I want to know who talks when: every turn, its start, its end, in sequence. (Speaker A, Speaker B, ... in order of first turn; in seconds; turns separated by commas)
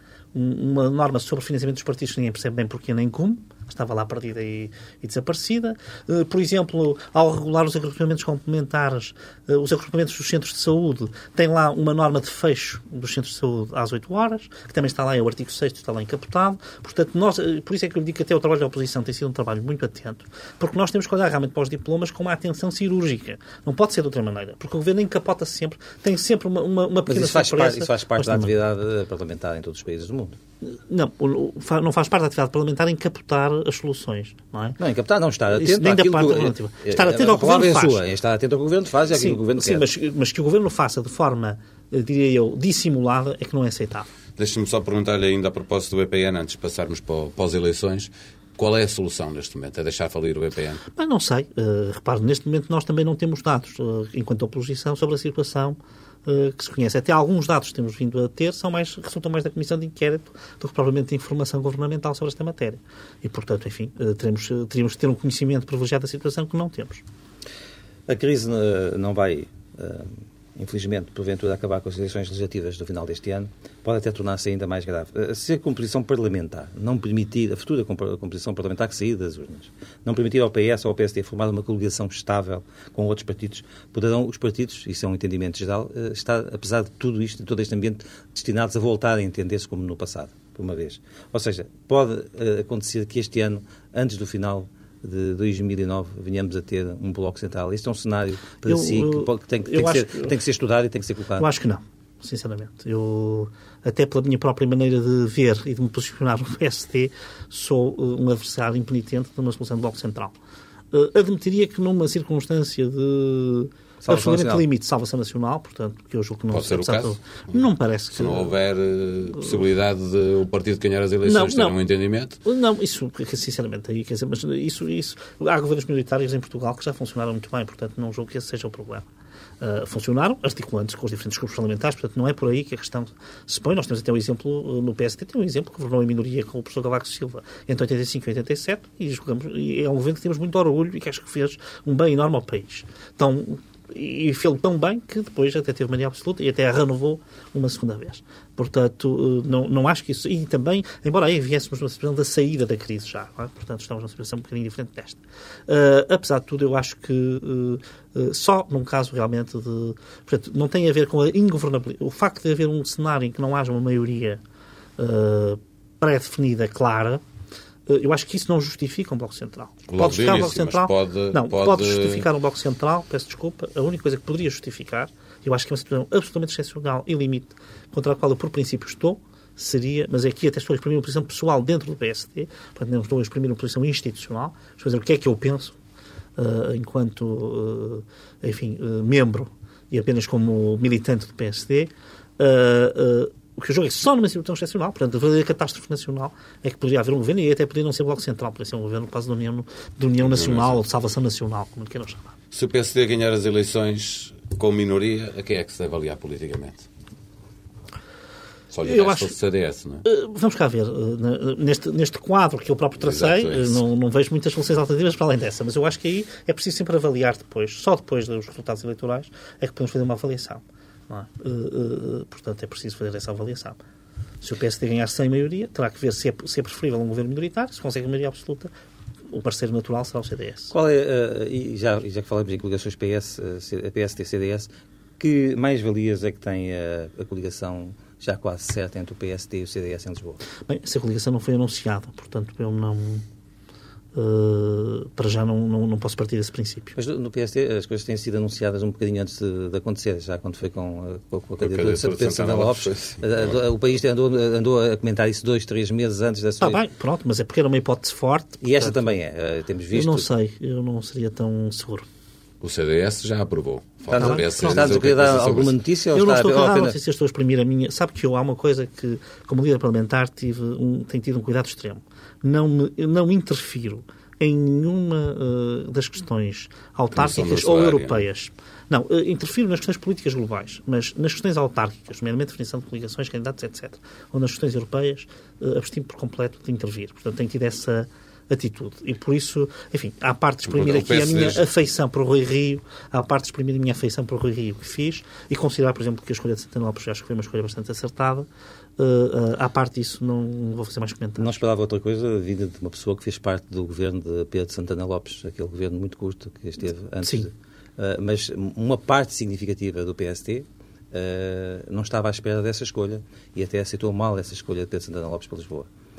Speaker A: 0.3-28.5, Speaker B: 27.1-30.4, Speaker A: 30.6-34.8, Speaker B: 34.8-39.9, Speaker A: 35.5-38.0, Speaker A: 39.1-44.1, Speaker C: 44.4-50.8, Speaker A: 50.9-67.0, Speaker B: 68.1-101.5, Speaker A: 98.7-100.3, Speaker A: 101.4-110.3, Speaker A: 110.9-118.5, Speaker B: 114.0-114.7, Speaker C: 116.5-117.6, Speaker C: 118.1-122.4, Speaker A: 121.3-121.8, Speaker A: 122.4-129.1, Speaker A: 129.6-164.4, Speaker A: 165.0-167.2, Speaker A: 167.9-185.8, Speaker C: 169.9-172.3, Speaker A: 186.4-202.3, Speaker C: 200.2-200.8, Speaker C: 202.5-206.9, Speaker C: 208.7-210.1, Speaker A: 208.8-209.3, Speaker A: 210.0-223.8, Speaker C: 213.0-213.8, Speaker A: 224.4-228.7, Speaker A: 229.3-230.7, Speaker B: 230.7-240.4, Speaker A: 240.7-243.2, Speaker A: 244.1-247.0, Speaker B: 247.0-256.8, Speaker C: 251.6-253.6, Speaker A: 256.6-259.1, Speaker B: 258.6-260.3, Speaker A: 259.9-262.1, Speaker C: 262.6-265.8, Speaker B: 264.1-267.0, Speaker A: 264.1-265.1, Speaker A: 266.1-298.5, Speaker C: 277.1-278.2, Speaker C: 290.7-291.6, Speaker A: 299.0-301.6, Speaker B: 301.4-315.9, Speaker A: 307.2-307.5